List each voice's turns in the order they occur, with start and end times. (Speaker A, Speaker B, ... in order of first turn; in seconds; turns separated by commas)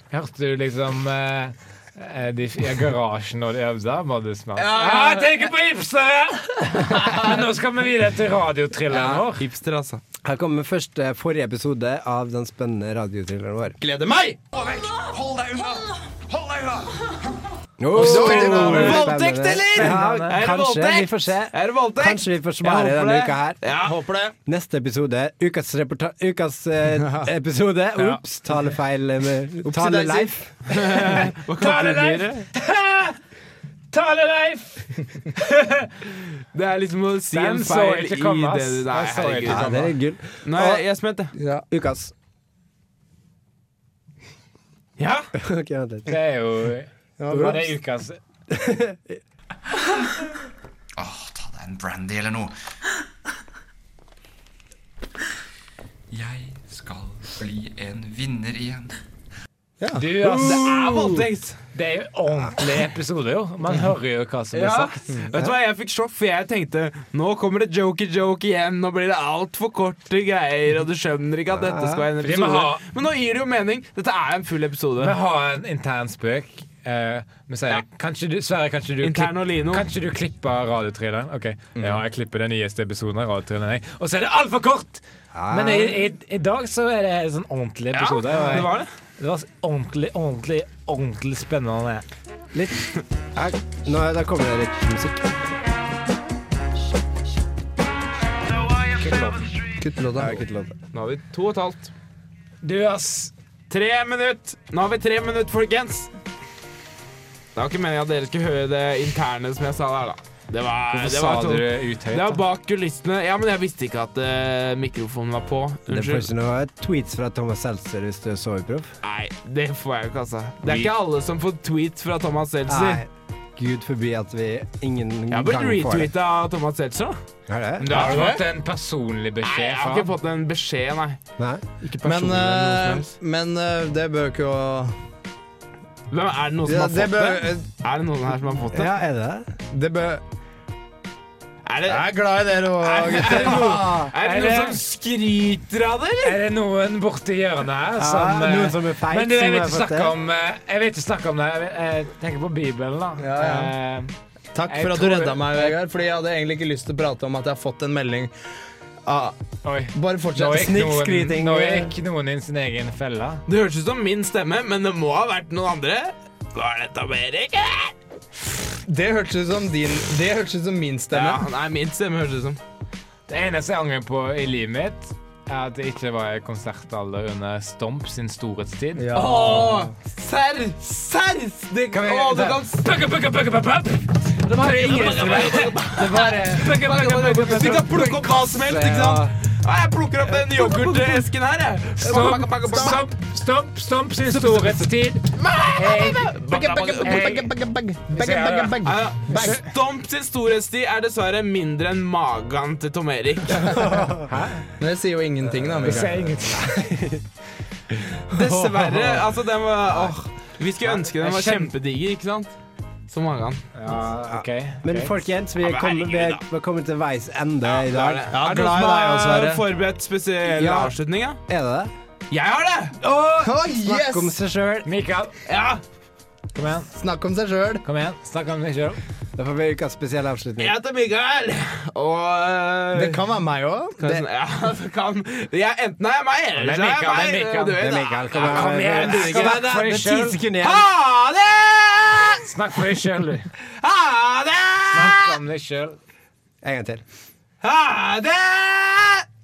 Speaker A: 0.1-9.4, Speaker B: 4.6-5.5, Speaker C: 8.9-9.3, Speaker B: 9.4-10.0, Speaker C: 10.2-13.8, Speaker D: 13.8-14.6, Speaker D: 15.3-15.7, Speaker D: 16.3-16.9, Speaker C: 17.8-23.6, Speaker A: 17.9-19.0, Speaker D: 18.0-19.1, Speaker B: 18.0-24.0, Speaker A: 19.8-20.4, Speaker D: 23.8-24.4, Speaker C: 24.5-30.5, Speaker D: 27.0-27.3, Speaker D: 29.6-30.3, Speaker B: 30.7-32.5, Speaker A: 31.6-33.2, Speaker A: 33.9-35.9, Speaker B: 36.5-41.3, Speaker A: 37.3-39.7, Speaker C: 39.5-40.8, Speaker D: 41.4-41.6, Speaker C: 41.7-42.1, Speaker B: 45.0-45.3, Speaker C: 45.4-46.2, Speaker A: 46.1-48.2, Speaker D: 47.2-47.7, Speaker C: 47.3-47.6, Speaker C: 48.5-49.2, Speaker E: 51.0-52.6, Speaker E: 56.1-59.0, Speaker D: 59.8-61.3, Speaker A: 60.0-60.6, Speaker B: 60.3-61.6, Speaker A: 61.7-65.1, Speaker B: 64.5-75.2, Speaker C: 71.5-72.1, Speaker A: 72.2-72.8, Speaker A: 75.0-92.0, Speaker B: 79.0-79.9, Speaker D: 81.8-82.0, Speaker C: 85.3-86.0, Speaker B: 87.9-88.9, Speaker C: 92.5-95.5, Speaker A: 98.9-99.4, Speaker D: 99.8-100.4, Speaker C: 100.2-100.8, Speaker B: 100.9-101.9, Speaker A: 102.6-103.3, Speaker B: 103.7-106.1, Speaker B: 107.6-116.3, Speaker A: 110.9-112.4, Speaker C: 115.9-118.9, Speaker B: 119.0-123.0, Speaker D: 120.7-120.9, Speaker C: 122.7-126.1, Speaker B: 125.3-127.2, Speaker C: 127.5-127.9, Speaker B: 127.8-128.4, Speaker A: 127.9-130.1, Speaker D: 127.9-128.4, Speaker B: 129.4-131.2, Speaker C: 131.4-131.6, Speaker B: 131.8-133.1, Speaker D: 132.0-134.9, Speaker B: 136.1-138.9, Speaker D: 136.7-137.7, Speaker C: 138.7-139.5, Speaker D: 139.7-140.2, Speaker B: 141.7-142.1, Speaker D: 141.9-144.1, Speaker B: 142.8-146.4, Speaker A: 144.2-144.8, Speaker A: 146.2-154.1, Speaker C: 148.0-150.1, Speaker D: 153.2-153.7, Speaker D: 154.5-158.3, Speaker A: 154.7-155.8, Speaker D: 159.1-159.4, Speaker A: 159.6-163.4, Speaker D: 159.9-160.9, Speaker C: 160.4-161.9, Speaker B: 163.5-167.9, Speaker D: 168.9-171.4, Speaker B: 171.1-172.6, Speaker A: 173.3-179.2, Speaker D: 179.0-179.9, Speaker B: 179.1-182.8, Speaker A: 181.9-188.3, Speaker C: 182.1-182.6, Speaker B: 184.6-193.0, Speaker C: 188.6-189.3, Speaker A: 190.6-191.2, Speaker A: 192.0-196.4, Speaker D: 192.7-193.0, Speaker B: 194.3-197.5, Speaker D: 196.4-199.6, Speaker A: 197.0-197.5, Speaker A: 198.1-199.6, Speaker B: 198.8-203.9, Speaker C: 203.8-204.2, Speaker A: 204.3-204.7, Speaker D: 204.8-206.3, Speaker C: 205.4-207.2, Speaker A: 205.8-206.8, Speaker C: 207.9-210.3, Speaker B: 208.3-212.5, Speaker A: 210.8-211.7, Speaker B: 213.1-213.6, Speaker A: 213.8-215.2, Speaker C: 214.3-218.2, Speaker B: 215.6-216.4, Speaker B: 217.7-221.4, Speaker D: 218.3-219.6, Speaker C: 220.4-221.0, Speaker C: 221.5-221.9, Speaker B: 222.3-223.0, Speaker C: 223.0-224.9, Speaker D: 223.4-224.3, Speaker A: 224.8-225.3, Speaker B: 225.5-225.8, Speaker A: 226.6-226.9, Speaker D: 226.9-227.8, Speaker A: 227.8-229.0, Speaker C: 229.4-230.8, Speaker B: 230.6-233.2, Speaker D: 232.9-234.2, Speaker B: 234.0-239.7, Speaker A: 236.6-240.4, Speaker C: 237.8-240.9, Speaker B: 240.6-242.5, Speaker A: 242.4-243.5, Speaker B: 243.8-245.4, Speaker A: 244.9-246.0, Speaker C: 246.6-247.0, Speaker B: 247.6-249.2